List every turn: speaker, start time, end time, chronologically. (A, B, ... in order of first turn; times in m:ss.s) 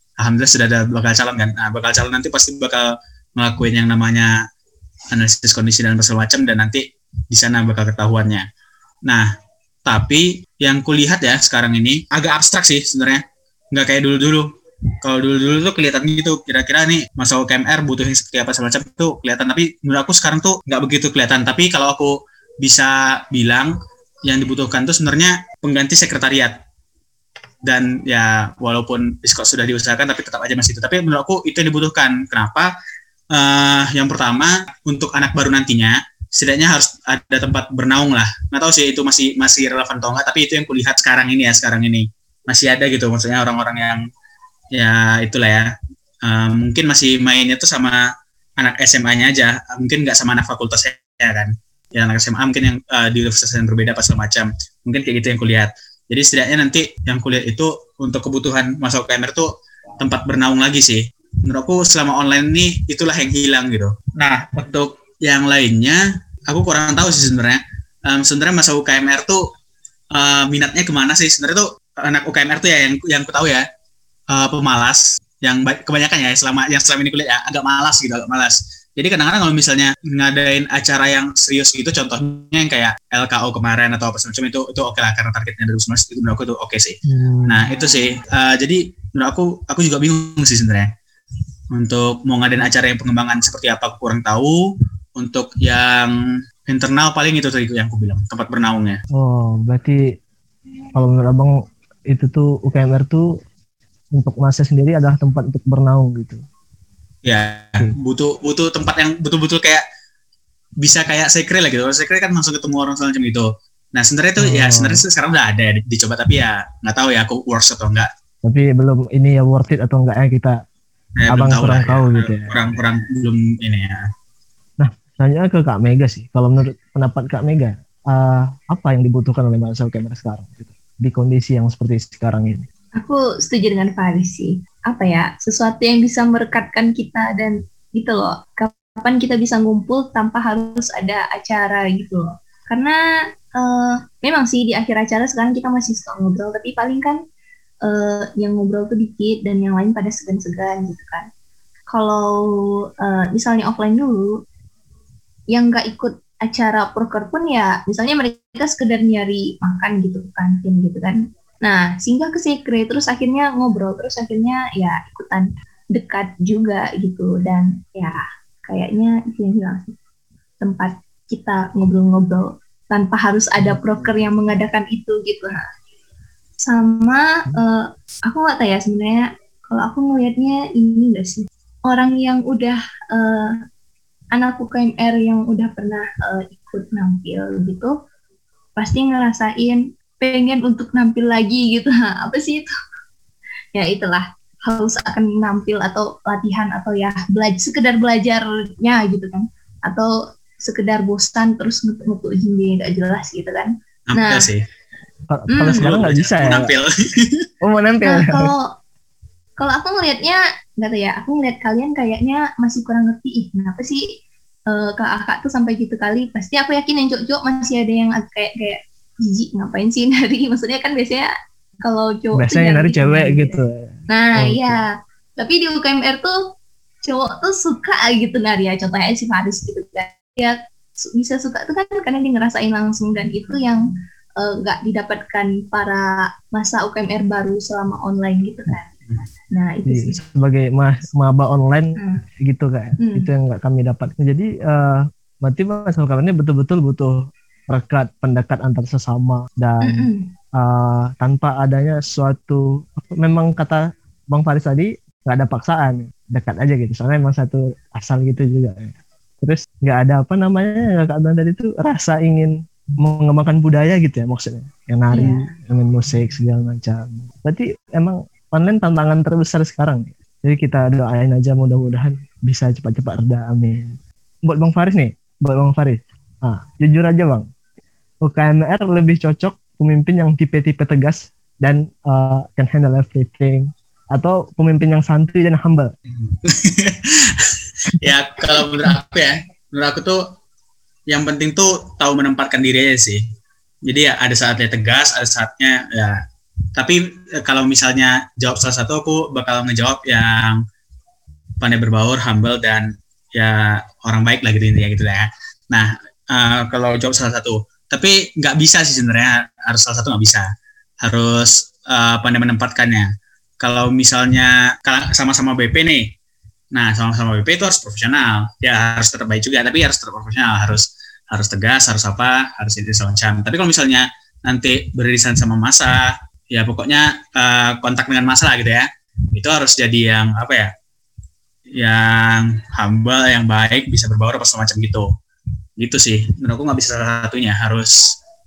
0:00.2-0:04.4 A
0:05.1-0:08.4 A
0:09.9-0:14.5 A
0:15.0-0:23.7 A
0:24.2-0:26.6 A
0:27.6-0:32.7 A
0:33.3-0:44.0 A
0:44.8-0:45.7 A
0:46.2-0:48.0 A
0:48.6-1:09.4 A
1:10.1-1:13.6 A
1:14.3-1:30.9 A
1:27.1-1:27.7 B
1:31.7-1:34.6 A
1:35.2-1:39.0 A
1:39.1-1:40.0 B
1:41.0-1:41.6 B
1:42.1-1:43.3 B
1:44.2-1:46.4 B
1:47.2-1:49.8 A
1:50.8-1:58.1 A
1:54.4-1:55.0 B
1:58.4-2:00.6 B
2:01.2-2:04.1 A
2:01.3-2:02.5 B
2:04.8-2:12.6 B
2:13.0-2:23.0 C
2:23.6-2:27.2 C
2:27.8-2:31.3 C
2:31.9-2:34.4 C
2:35.5-2:50.0 C
2:50.6-2:55.7 C
2:56.6-3:03.6 C
3:04.3-3:07.9 C
3:08.8-3:12.7 C
3:13.7-3:24.5 C
3:24.1-3:24.6 A
3:25.3-3:26.7 B
3:25.5-3:25.8 C
3:25.6-3:27.4 A
3:27.6-3:28.5 B
3:28.0-3:28.7 C
3:29.6-3:34.1 C
3:34.7-3:41.3 C
3:41.8-3:43.6 C
3:42.4-3:44.8 B
3:44.1-3:46.4 C
3:47.0-3:53.8 C
3:54.4-3:58.9 C
3:59.5-4:00.2 C
3:59.9-4:07.2 B
4:02.0-4:02.2 C
4:03.0-4:03.3 C
4:07.7-4:37.5 B
4:09.8-4:10.3 C
4:25.1-4:25.5 C
4:38.2-4:45.9 B
4:46.2-4:50.2 A
4:48.0-4:48.9 B
4:51.1-4:53.2 A
4:53.9-4:56.2 A
4:56.8-5:00.6 A
5:01.6-5:10.5 A
5:11.0-5:13.1 A
5:13.6-5:16.1 A
5:16.7-5:30.7 A
5:31.8-5:35.1 A
5:35.8-5:38.1 A